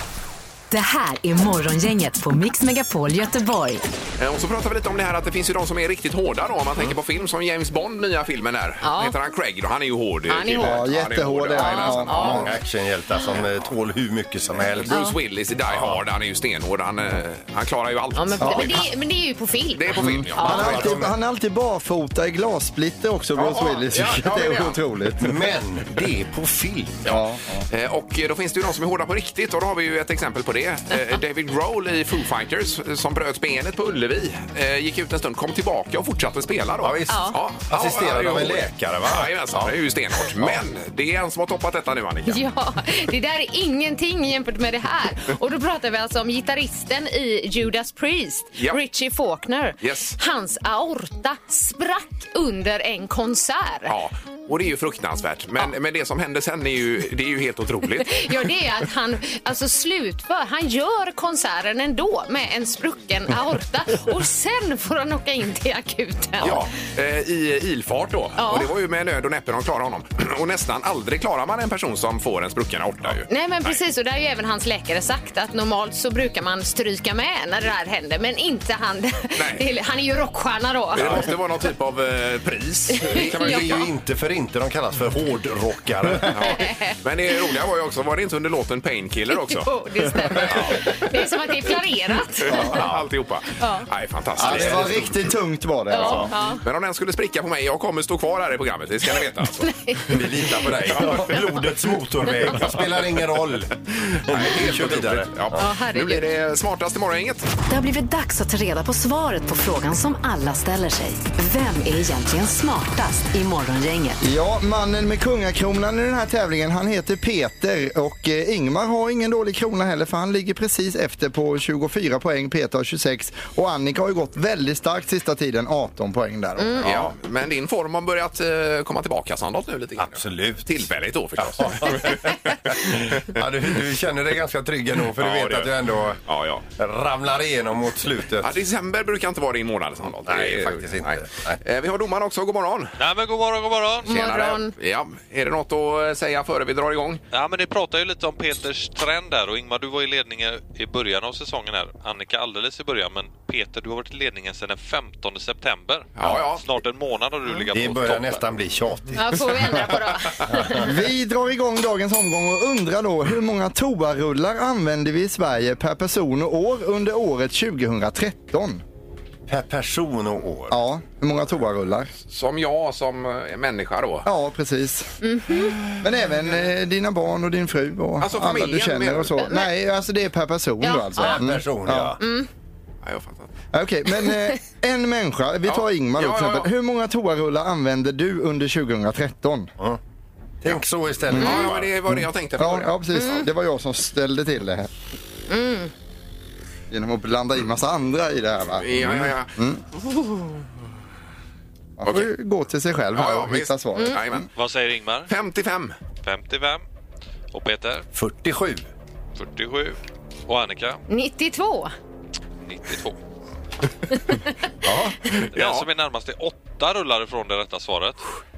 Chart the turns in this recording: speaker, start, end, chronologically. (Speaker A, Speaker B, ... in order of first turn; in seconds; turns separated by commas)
Speaker A: 0.7-3.8, Speaker B: 4.2-12.4, Speaker C: 8.8-9.1, Speaker C: 10.3-10.8, Speaker D: 10.5-12.5, Speaker C: 11.6-12.5, Speaker E: 12.1-14.9, Speaker B: 14.8-18.9, Speaker C: 14.9-15.1, Speaker E: 15.7-16.0, Speaker C: 18.1-20.8, Speaker D: 18.4-18.9, Speaker B: 19.7-21.0, Speaker D: 20.0-25.3, Speaker E: 20.4-21.1, Speaker B: 23.4-24.8, Speaker E: 25.2-27.2, Speaker D: 27.1-27.6, Speaker B: 27.1-42.4, Speaker E: 36.8-40.6, Speaker C: 37.1-37.4, Speaker C: 42.3-53.9, Speaker B: 49.8-50.2, Speaker B: 53.9-58.5, Speaker C: 58.0-66.6, Speaker E: 66.4-66.7, Speaker B: 66.4-73.8, Speaker C: 68.4-68.7, Speaker C: 73.3-81.3, Speaker B: 79.3-79.6, Speaker B: 80.9-83.9, Speaker E: 81.0-81.3, Speaker C: 82.9-83.8, Speaker E: 83.1-86.5, Speaker B: 86.3-89.7, Speaker C: 86.4-87.0, Speaker C: 89.3-92.7, Speaker B: 90.2-90.9, Speaker B: 92.4-95.1, Speaker D: 92.5-92.8, Speaker E: 92.6-93.1, Speaker C: 93.6-93.8, Speaker D: 94.4-96.3, Speaker E: 94.4-95.1, Speaker C: 95.9-96.6, Speaker B: 96.0-100.2, Speaker C: 99.6-100.2, Speaker E: 100.1-105.6, Speaker B: 100.9-101.3, Speaker B: 104.3-107.5, Speaker C: 105.5-106.3, Speaker A: 107.7-114.2, Speaker D: 114.2-126.9, Speaker C: 126.6-126.8, Speaker B: 126.8-133.3, Speaker E: 130.0-130.8, Speaker E: 131.4-136.2, Speaker B: 135.2-135.7, Speaker B: 136.2-136.6, Speaker E: 136.8-138.5, Speaker B: 138.4-142.9, Speaker E: 140.2-141.6, Speaker F: 143.0-144.2, Speaker C: 144.0-144.7, Speaker B: 144.1-147.2, Speaker F: 147.3-158.4, Speaker B: 156.2-156.6, Speaker E: 157.7-159.7, Speaker C: 159.1-160.9, Speaker E: 160.5-160.9, Speaker D: 160.8-168.8, Speaker E: 169.5-170.8, Speaker D: 170.7-172.1, Speaker B: 172.3-174.3, Speaker D: 174.2-175.1, Speaker C: 175.2-175.8, Speaker D: 176.0-182.2, Speaker B: 178.2-179.4, Speaker C: 179.4-179.7, Speaker C: 180.8-181.4, Speaker E: 181.2-182.2, Speaker C: 182.2-182.5, Speaker B: 183.0-183.5, Speaker D: 183.7-189.7, Speaker B: 185.6-186.7, Speaker E: 190.6-191.9, Speaker D: 191.3-194.9, Speaker B: 191.3-193.4, Speaker C: 193.2-193.4, Speaker C: 195.5-195.9, Speaker D: 196.9-199.8, Speaker B: 198.8-199.5, Speaker D: 202.0-204.5, Speaker B: 202.0-202.3, Speaker B: 203.1-204.5, Speaker F: 204.6-205.3, Speaker B: 205.3-205.9, Speaker F: 206.2-206.8, Speaker F: 207.5-208.0, Speaker E: 208.1-208.9, Speaker F: 209.3-210.0, Speaker F: 210.5-211.0, Speaker C: 211.1-211.9, Speaker F: 212.6-213.2, Speaker E: 214.9-215.1, Speaker F: 215.5-218.2, Speaker B: 215.5-215.9